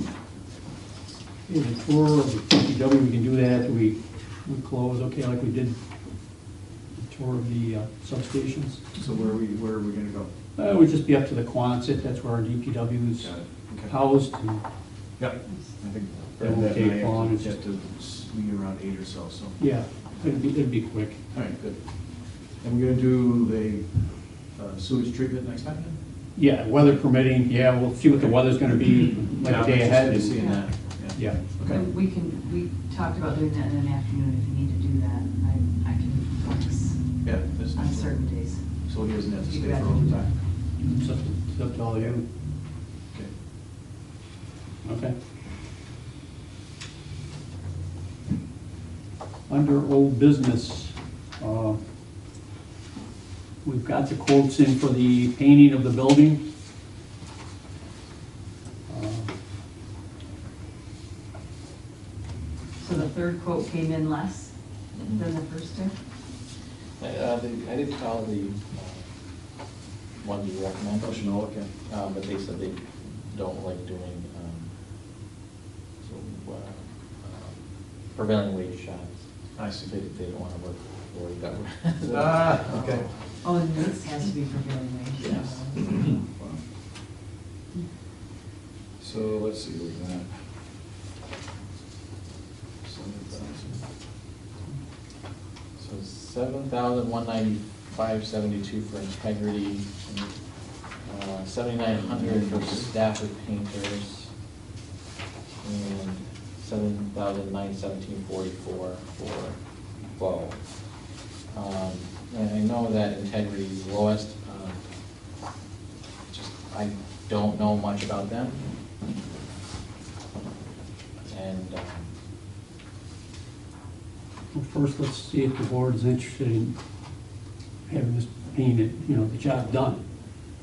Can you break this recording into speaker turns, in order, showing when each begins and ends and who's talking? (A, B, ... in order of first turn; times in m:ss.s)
0:01.5-0:05.8 A
0:07.0-0:08.8 A
0:09.0-0:10.3 B
0:10.6-0:13.3 A
0:13.2-0:13.9 B
0:13.8-0:14.6 A
0:15.2-0:19.6 B
0:16.4-0:17.5 A
0:19.6-0:21.2 A
0:21.3-0:21.8 B
0:22.6-0:23.8 B
0:24.6-0:26.0 B
0:26.3-0:30.4 A
0:29.3-0:31.8 B
0:30.4-0:30.6 C
0:31.1-0:31.4 A
0:31.6-0:37.0 C
0:37.2-0:38.2 B
0:37.7-0:38.6 C
0:38.9-0:40.4 B
0:39.3-0:40.3 C
0:40.8-0:42.2 A
0:44.8-0:45.1 A
0:49.5-0:51.8 A
0:53.6-0:56.4 A
0:58.9-0:59.3 A
1:02.8-1:04.5 C
1:04.9-1:05.2 D
1:05.1-1:05.9 C
1:07.0-1:09.1 D
1:10.2-1:11.3 D
1:11.0-1:11.7 B
1:11.9-1:14.7 D
1:16.0-1:17.6 D
1:18.1-1:19.2 D
1:19.6-1:20.0 B
1:19.8-1:22.6 D
1:22.1-1:23.1 B
1:23.4-1:26.2 C
1:25.2-1:25.6 D
1:25.7-1:26.6 B
1:29.0-1:30.3 B
1:32.8-1:33.8 B
1:35.8-1:40.1 D
1:41.0-1:44.3 D
1:41.8-1:42.9 B
1:45.6-1:49.6 D
1:50.1-1:50.6 D
1:51.5-1:54.8 D
1:56.3-1:58.6 D
2:01.3-2:02.1 D
2:04.5-2:06.7 A
2:07.9-2:10.0 A